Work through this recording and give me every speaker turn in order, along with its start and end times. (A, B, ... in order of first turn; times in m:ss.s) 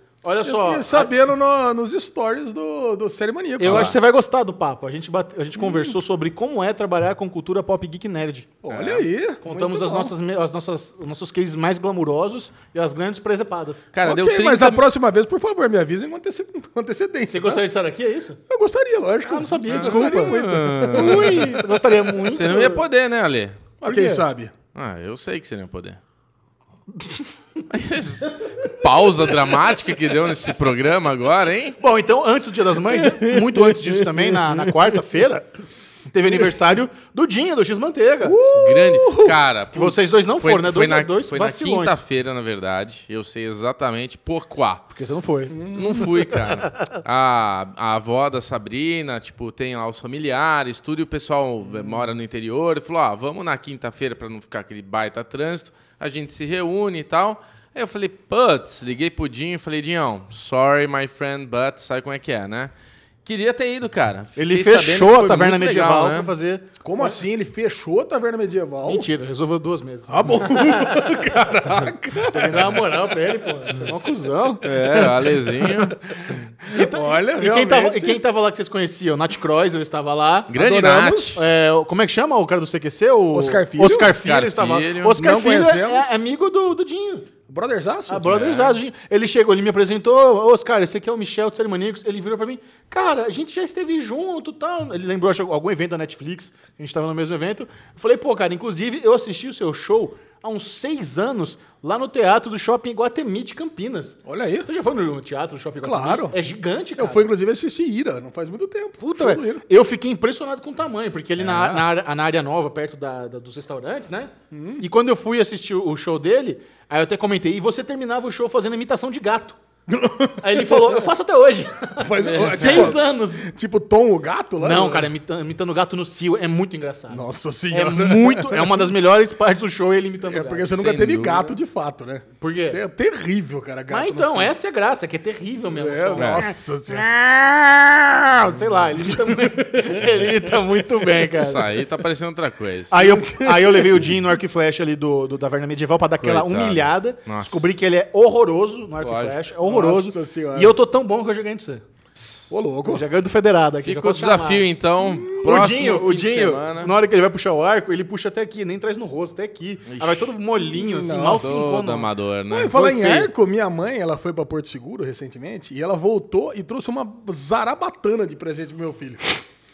0:00.2-0:01.1 A
0:00.4-0:03.9 B
0:03.6-0:08.5 A
0:03.6-0:03.9 C
0:05.6-0:05.9 B
0:08.6-0:10.1 B
0:08.7-0:09.0 C
0:09.4-0:13.9 A
0:13.9-0:14.8 C
0:14.0-0:17.6 B
0:17.3-0:18.4 A
0:18.5-0:21.6 B
0:19.2-0:20.4 A
0:19.7-0:21.6 C
0:20.9-0:22.8 A
0:22.2-0:23.6 C
0:23.8-0:24.5 B
0:23.8-0:24.2 A
0:24.7-0:26.0 C
0:27.7-0:31.8 C
0:31.8-0:35.5 A
0:32.9-0:35.0 B
0:36.1-0:38.4 A
0:38.2-0:39.4 B
0:38.5-0:44.8 C
0:39.7-0:42.0 A
0:44.9-0:46.0 A
0:45.5-0:46.3 B
0:45.7-1:02.7 C
0:51.7-0:52.0 B
1:03.2-1:06.3 C
1:04.4-1:07.2 A
1:06.8-1:09.1 B
1:08.8-1:11.4 A
1:10.1-1:12.9 B
1:12.3-1:15.1 A
1:14.6-1:16.0 C
1:14.9-1:15.3 B
1:16.6-1:20.5 A
1:16.7-1:18.2 B
1:20.5-1:21.5 C
1:20.6-1:21.5 B
1:21.3-1:27.3 A
1:23.3-1:24.2 B
1:24.0-1:25.1 C
1:25.1-1:26.2 B
1:27.5-1:28.3 B
1:28.1-1:47.3 A
1:28.2-1:28.8 C
1:44.2-1:44.7 B
1:45.8-1:46.3 B
1:47.0-1:49.6 B
1:49.0-1:59.6 A
1:51.4-1:51.8 B
1:54.5-1:54.8 B
1:59.9-2:01.1 B
2:00.4-2:03.5 A
2:02.0-2:05.1 B
2:02.2-2:03.0 C
2:04.6-2:10.8 A
2:07.1-2:08.9 B
2:10.2-2:14.5 B
2:10.7-2:11.5 C
2:12.4-2:12.8 A
2:13.9-2:17.0 A
2:15.7-2:20.6 B
2:16.2-2:16.5 C
2:18.4-2:21.8 A
2:21.3-2:22.9 C
2:22.9-2:31.8 A
2:22.9-2:24.2 B
2:26.2-2:27.8 C
2:29.0-2:29.4 C
2:29.6-2:30.7 B
2:32.2-2:32.4 C
2:32.5-2:33.0 B
2:32.8-2:34.7 A
2:33.8-2:36.9 C
2:35.0-2:35.4 B
2:35.4-2:42.1 A
2:39.9-2:40.3 C
2:40.7-2:41.6 B
2:41.3-2:43.2 C
2:42.5-2:49.4 B
2:42.7-2:43.2 A